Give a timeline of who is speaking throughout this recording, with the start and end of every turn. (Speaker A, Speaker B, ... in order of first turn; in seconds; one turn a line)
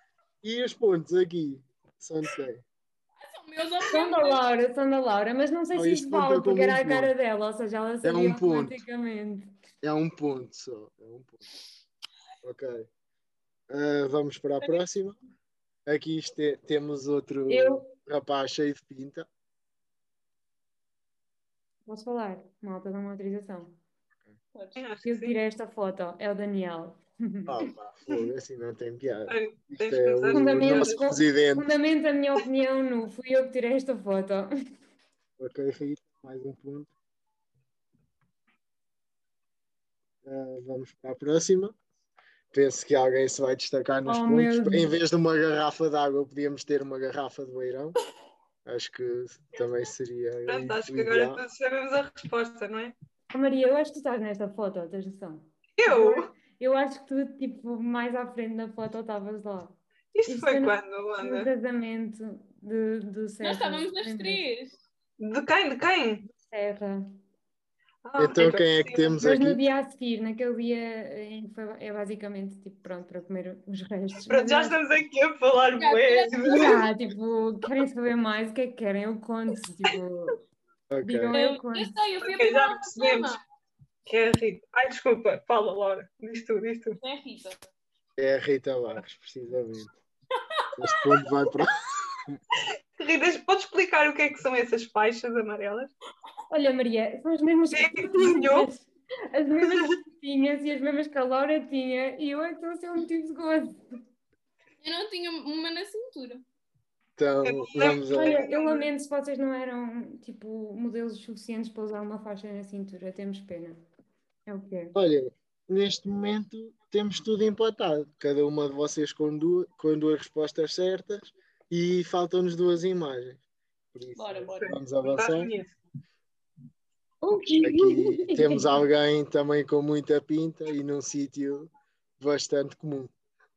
Speaker A: 0.4-2.6
Speaker B: 3.2-4.5
Speaker C: 3.9-9.5
Speaker A: 5.7-7.1
Speaker A: 8.0-8.8
Speaker A: 9.8-11.4
Speaker A: 12.4-12.9
Speaker A: 13.7-15.2
Speaker A: 15.9-19.3
Speaker C: 17.5-17.9
Speaker C: 21.9-23.8
Speaker B: 24.5-24.9
Speaker D: 24.8-25.4
Speaker C: 25.0-27.5
Speaker A: 27.5-31.8
Speaker D: 29.3-31.0
Speaker C: 30.3-34.5
Speaker A: 35.4-36.9
Speaker A: 40.2-41.8
Speaker A: 42.5-48.0
Speaker C: 44.1-44.9
Speaker A: 48.6-51.4
Speaker D: 50.5-52.9
Speaker C: 53.3-64.5
Speaker D: 55.8-56.3
Speaker D: 60.1-61.5
Speaker B: 63.4-64.8
Speaker D: 65.2-66.2
Speaker C: 66.3-67.1
Speaker D: 68.0-69.2
Speaker A: 68.2-69.6
Speaker C: 69.2-74.8
Speaker D: 74.3-76.9
Speaker B: 75.8-76.9
Speaker C: 76.4-80.4
Speaker A: 80.9-81.3
Speaker C: 81.0-82.0
Speaker B: 81.3-83.4
Speaker D: 82.2-83.3
Speaker D: 84.1-87.0
Speaker B: 87.0-87.6
Speaker A: 88.2-89.9
Speaker B: 90.4-91.0
Speaker A: 90.8-92.4
Speaker D: 93.0-95.9
Speaker C: 96.5-103.8
Speaker D: 97.7-98.7
Speaker B: 104.8-106.4
Speaker A: 107.2-108.4
Speaker D: 107.4-108.9
Speaker C: 108.1-113.8
Speaker C: 114.5-115.0
Speaker A: 115.0-125.5
Speaker B: 124.2-124.8
Speaker D: 124.6-125.8
Speaker C: 127.2-128.8
Speaker A: 127.6-133.1